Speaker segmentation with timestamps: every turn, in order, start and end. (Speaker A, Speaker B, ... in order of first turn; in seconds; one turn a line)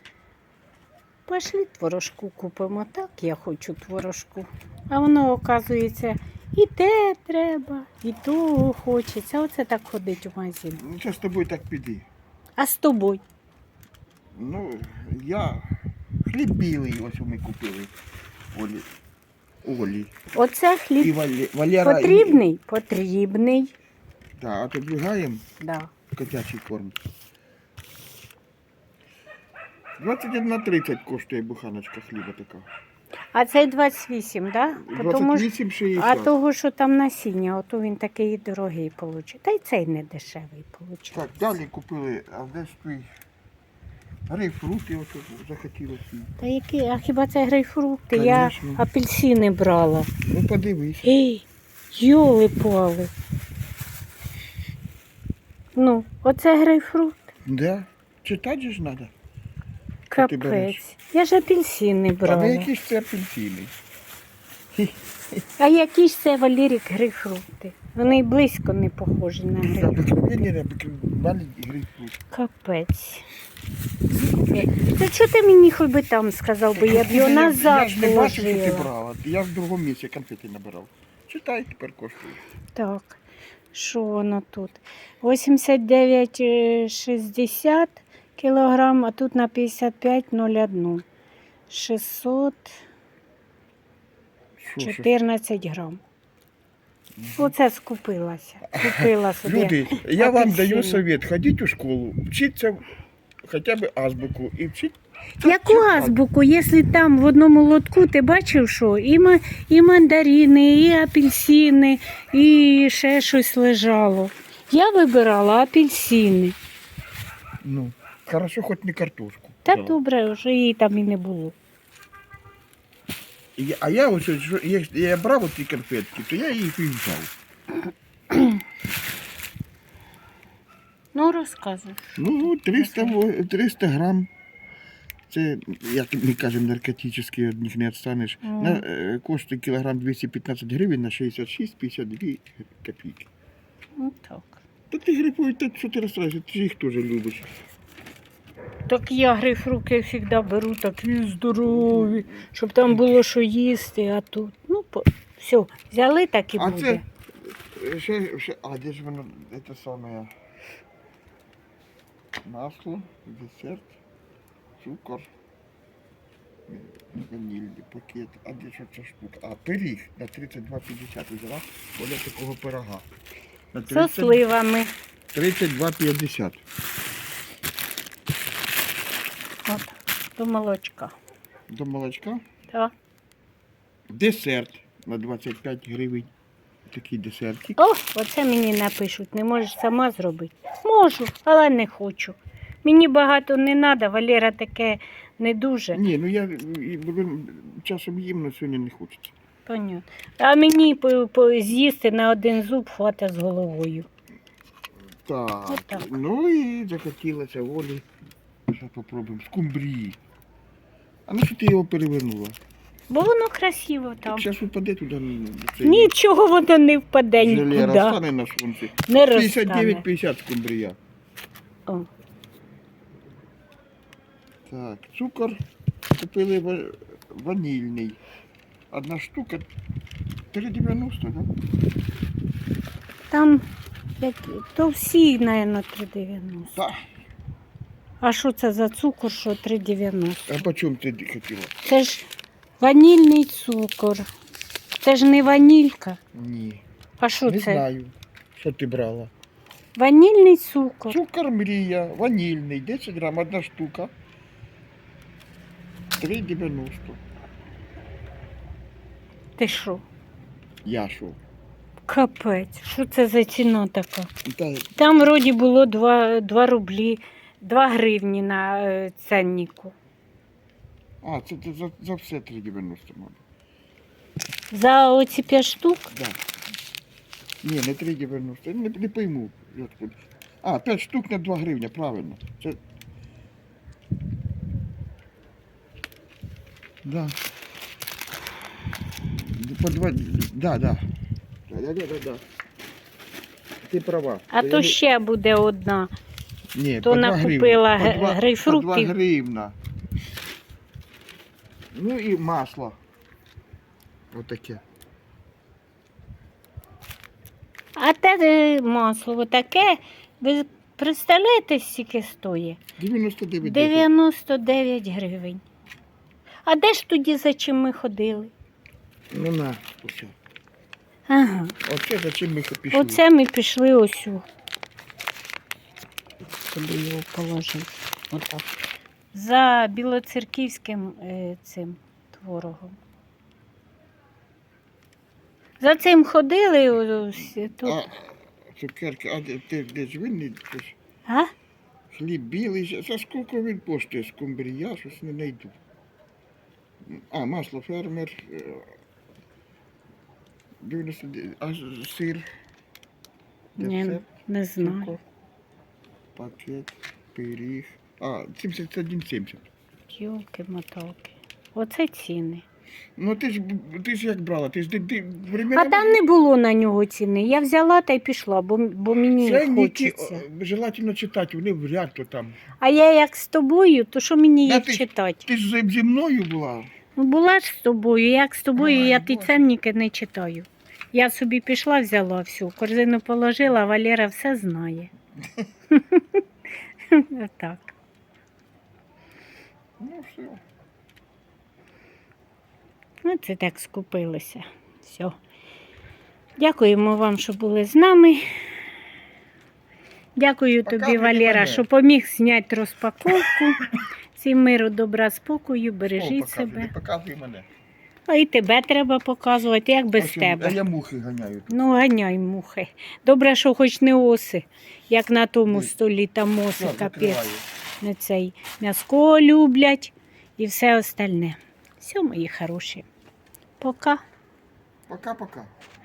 Speaker A: 1.3-10.8
Speaker B: 10.8-12.1
Speaker A: 12.6-13.2
Speaker B: 14.3-17.9
Speaker B: 18.5-18.9
Speaker B: 19.6-20.1
Speaker A: 20.3-21.1
Speaker B: 21.0-22.4
Speaker A: 21.8-23.7
Speaker B: 24.4-25.4
Speaker A: 25.6-25.9
Speaker B: 26.1-26.9
Speaker B: 30.0-32.7
Speaker A: 33.3-41.4
Speaker B: 34.8-36.3
Speaker B: 41.1-43.1
Speaker B: 44.3-46.3
Speaker A: 46.4-50.1
Speaker B: 48.1-48.8
Speaker B: 50.2-51.1
Speaker A: 51.0-53.1
Speaker A: 55.8-57.3
Speaker B: 57.4-59.1
Speaker A: 60.1-62.7
Speaker B: 60.1-60.8
Speaker B: 62.2-63.7
Speaker B: 64.7-65.4
Speaker A: 65.6-70.2
Speaker B: 69.6-72.2
Speaker A: 72.3-73.2
Speaker B: 74.1-75.0
Speaker A: 74.5-78.9
Speaker B: 76.7-82.4
Speaker A: 82.7-83.2
Speaker A: 83.7-91.0
Speaker A: 91.7-92.7
Speaker B: 94.6-95.1
Speaker A: 94.8-96.0
Speaker B: 97.2-97.5
Speaker A: 97.3-101.0
Speaker B: 98.7-102.8
Speaker B: 103.4-106.2
Speaker A: 105.4-116.5
Speaker B: 117.6-120.0
Speaker A: 119.7-121.5
Speaker B: 123.6-127.3
Speaker A: 128.3-128.6
Speaker A: 131.1-133.2
Speaker B: 132.2-134.3
Speaker B: 135.3-143.3
Speaker A: 138.4-138.8
Speaker A: 144.0-144.6
Speaker B: 144.9-147.5
Speaker A: 148.9-157.0
Speaker B: 151.6-153.1
Speaker B: 156.6-160.3
Speaker B: 162.4-164.0
Speaker B: 164.8-165.3
Speaker B: 166.7-173.1
Speaker B: 173.7-174.4
Speaker A: 173.9-174.9
Speaker B: 175.3-176.6
Speaker A: 179.7-181.1
Speaker B: 181.7-182.4
Speaker B: 184.1-186.3
Speaker B: 186.9-187.8
Speaker A: 187.8-196.0
Speaker B: 195.9-199.3
Speaker A: 199.7-204.1
Speaker B: 205.2-208.1
Speaker A: 205.7-206.1
Speaker B: 208.7-210.2
Speaker B: 211.3-212.6
Speaker A: 213.1-214.5
Speaker B: 214.2-216.1
Speaker A: 215.8-218.2
Speaker B: 217.4-221.0
Speaker A: 219.1-220.0
Speaker B: 224.7-225.6
Speaker B: 226.1-228.2
Speaker B: 228.9-229.7
Speaker B: 230.5-231.5
Speaker A: 233.3-233.6
Speaker A: 234.2-236.7
Speaker B: 236.7-237.0
Speaker A: 238.2-240.5
Speaker B: 240.5-241.7
Speaker A: 241.8-242.3
Speaker A: 242.8-244.3
Speaker A: 245.0-246.2
Speaker B: 246.3-246.8
Speaker A: 247.2-247.8
Speaker B: 247.4-249.3
Speaker A: 249.9-251.2
Speaker B: 251.1-254.1
Speaker B: 256.2-257.2
Speaker A: 259.6-260.0
Speaker B: 260.8-261.4
Speaker A: 262.1-264.3
Speaker B: 264.4-265.0
Speaker A: 264.9-269.9
Speaker B: 271.2-273.4
Speaker A: 274.7-276.1
Speaker B: 276.1-276.4
Speaker B: 277.6-282.8
Speaker B: 287.0-287.4
Speaker B: 289.3-291.1
Speaker B: 291.7-292.4
Speaker B: 293.8-295.0
Speaker A: 294.5-296.1
Speaker B: 296.7-299.8
Speaker A: 297.0-299.1
Speaker B: 301.9-303.0
Speaker B: 304.3-304.8
Speaker A: 307.9-312.8
Speaker B: 313.0-314.1
Speaker A: 313.6-315.6
Speaker A: 316.6-318.5
Speaker B: 319.3-320.3
Speaker A: 321.3-321.7
Speaker B: 321.8-323.2
Speaker A: 322.9-324.4
Speaker A: 326.7-328.6
Speaker A: 329.3-333.0
Speaker A: 335.8-338.0
Speaker B: 337.8-340.9
Speaker A: 341.3-341.5
Speaker B: 342.1-345.8
Speaker B: 347.1-348.9
Speaker B: 350.8-352.5
Speaker B: 353.8-354.2
Speaker A: 353.8-355.1
Speaker B: 354.8-355.2
Speaker B: 356.3-359.7
Speaker A: 360.1-362.6
Speaker B: 363.2-366.1
Speaker A: 365.7-370.4
Speaker B: 369.4-372.6
Speaker A: 372.8-375.4
Speaker B: 374.6-376.9
Speaker A: 377.1-385.1
Speaker B: 378.8-379.6
Speaker A: 385.9-386.4
Speaker A: 387.1-387.9
Speaker B: 390.0-390.6
Speaker A: 393.2-395.4
Speaker A: 396.6-398.4
Speaker A: 400.4-403.8
Speaker B: 400.8-401.9
Speaker A: 404.3-406.9
Speaker B: 406.1-407.7
Speaker A: 408.3-410.8
Speaker B: 410.1-411.8
Speaker A: 411.7-417.4
Speaker B: 416.7-417.6
Speaker A: 418.0-423.0
Speaker A: 423.8-424.2
Speaker B: 425.1-425.7